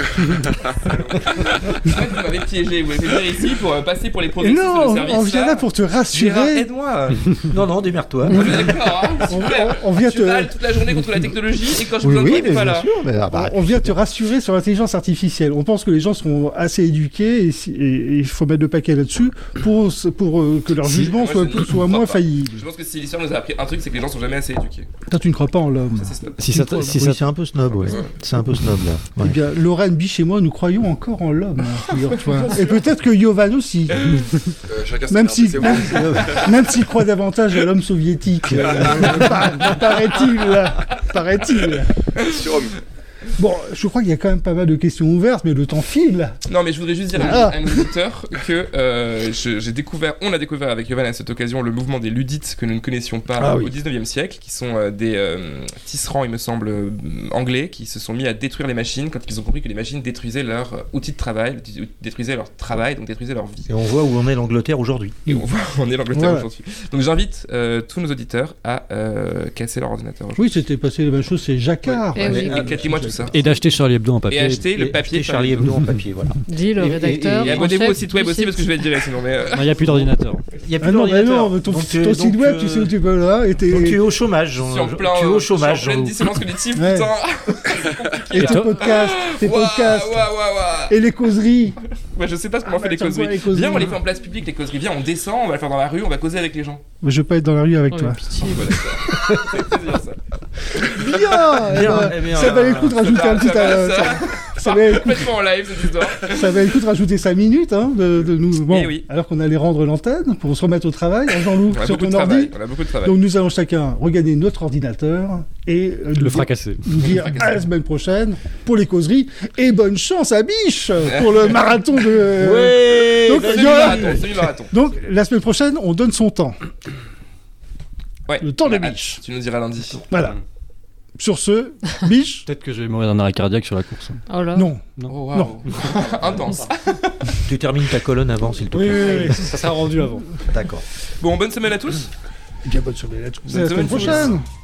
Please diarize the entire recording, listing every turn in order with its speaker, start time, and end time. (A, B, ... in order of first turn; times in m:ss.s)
0:00.7-0:07.3 A
0:04.4-0:06.6 B
0:07.5-0:08.8 C
0:08.2-0:10.5 B
0:08.3-0:12.9 A
0:12.0-0:14.0 C
0:13.3-0:22.6 B
0:20.9-0:24.9 A
0:25.1-0:27.0 B
0:25.9-0:26.4 A
0:26.4-0:27.2 D
0:26.6-0:29.4 C
0:29.2-0:34.2 B
0:32.2-0:32.8 A
0:34.7-0:36.6 E
0:35.1-0:41.9 B
0:38.6-0:40.3 A
0:38.7-0:39.1 E
0:42.2-0:42.4 A
0:42.2-0:42.7 E
0:43.4-0:46.4 B
0:46.5-1:03.7 A
0:47.1-0:47.8 B
0:53.4-0:53.7 B
1:03.7-1:05.2 C
1:05.2-1:10.5 A
1:06.1-1:06.4 B
1:10.4-1:13.6 B
1:11.8-1:13.4 A
1:12.1-1:12.8 F
1:12.2-1:12.7 C
1:13.3-1:14.7 D
1:14.3-1:15.8 A
1:14.7-1:17.8 C
1:16.5-1:18.9 F
1:17.4-1:20.1 A
1:19.5-1:20.4 D
1:20.6-1:22.9 C
1:20.8-1:24.0 B
1:23.7-1:26.4 C
1:24.6-1:31.0 A
1:26.7-1:27.1 B
1:28.3-1:30.3 B
1:28.4-1:28.8 D
1:30.9-1:31.8 B
1:31.8-1:36.8 A
1:32.6-1:34.0 B
1:37.0-1:38.2 B
1:37.9-1:38.7 F
1:38.4-1:46.7 A
1:39.1-1:39.4 B
1:40.8-1:45.3 B
1:41.4-1:43.0 C
1:46.2-2:06.6 B
1:48.7-1:49.0 A
1:51.5-1:53.2 A
1:56.2-1:57.1 D
1:57.0-1:57.6 A
2:02.4-2:03.9 C
2:03.3-2:04.7 A
2:08.3-2:10.0 A
2:08.4-2:09.2 B
2:10.1-2:10.4 B
2:11.2-2:12.4 B
2:12.4-2:14.2 D
2:14.3-2:14.7 F
2:14.5-2:15.6 B
2:15.1-2:17.4 A
2:17.4-2:19.5 C
2:18.7-2:20.3 D
2:18.8-2:20.0 B
2:20.5-2:20.8 C
2:21.2-2:22.1 A
2:22.6-2:24.4 B
2:23.4-2:24.4 A